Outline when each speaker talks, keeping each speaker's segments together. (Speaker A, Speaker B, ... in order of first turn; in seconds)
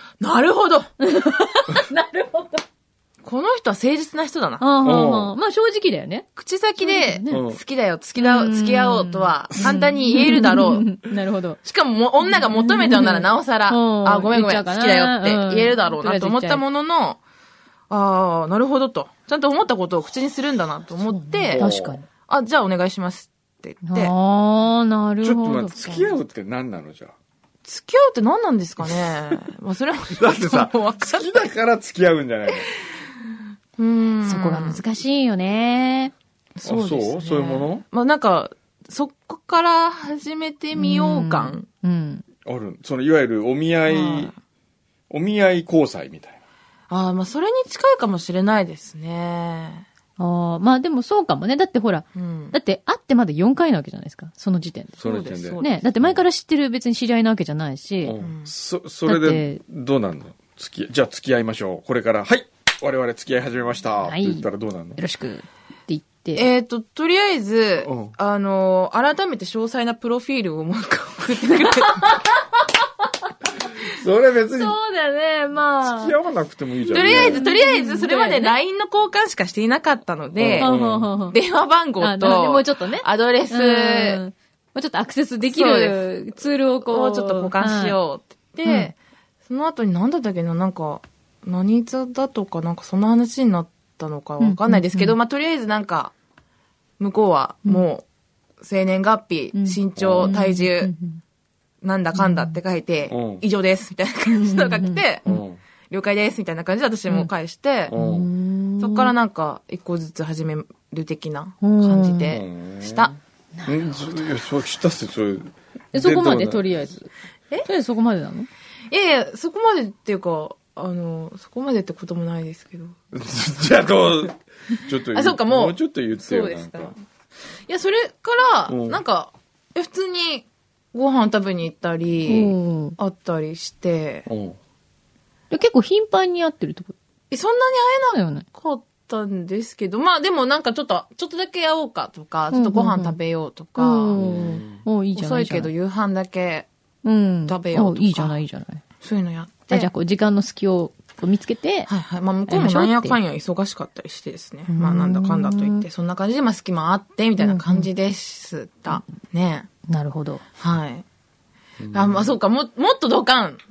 Speaker A: 0.2-0.9, 3.2-4.7, 6.4-10.9, 11.6-17.2, 17.9-21.7, 22.3-24.1, 25.8-26.1, 27.6-31.5, 33.8-34.8, 36.5-41.7, 43.9-44.3, 46.9-49.9, 52.1-52.5, 55.0-55.8, 58.2-58.5, 66.4-72.2, 76.9-80.7, 81.3-84.2, 85.4-86.0, 86.9-96.1, 97.0-98.0, 98.6-100.9, 101.8-105.3, 105.9-108.0, 108.8-113.2, 118.9-123.0, 125.1-127.0, 127.7-134.3, 137.3-144.2, 145.2-146.7, 147.5-148.4, 149.0-149.9, 151.9-159.7, 160.6-161.1, 161.9-163.6
Speaker B: 1.0-2.6, 4.6-7.4, 8.2-11.6, 12.2-16.6, 21.1-22.1, 23.8-25.8, 34.2-36.1, 40.8-42.2, 50.2-55.0, 55.6-58.1, 59.1-59.6, 64.0-66.5, 71.4-72.4, 74.5-76.2, 76.9-78.5, 80.6-81.4, 82.0-88.0, 88.7-88.9, 94.4-95.2, 99.5-101.2, 102.2-102.5, 104.3-105.4, 107.9-109.1, 111.6-112.3, 115.9-117.1, 117.6-118.5, 132.3-133.0, 135.5-136.9, 138.1-138.4, 142.5-143.2, 143.8-145.7, 147.0-148.8, 149.7-151.9, 152.5-153.2, 154.7-155.9, 157.4-157.9, 159.9-160.4
Speaker C: 4.8-5.3, 7.3-7.6, 21.5-22.0, 25.2-27.1, 30.2-32.7, 36.6-37.8, 42.5-44.3, 45.1-46.4, 55.0-56.2, 58.0-65.0, 67.8-68.1, 73.9-74.8, 75.8-77.4, 80.4-81.1, 100.0-100.3, 103.1-103.4, 105.3-105.6, 107.9-108.3, 112.3-116.8, 123.1-126.9, 128.7-129.0, 134.3-134.6, 144.2-144.8, 161.8-162.3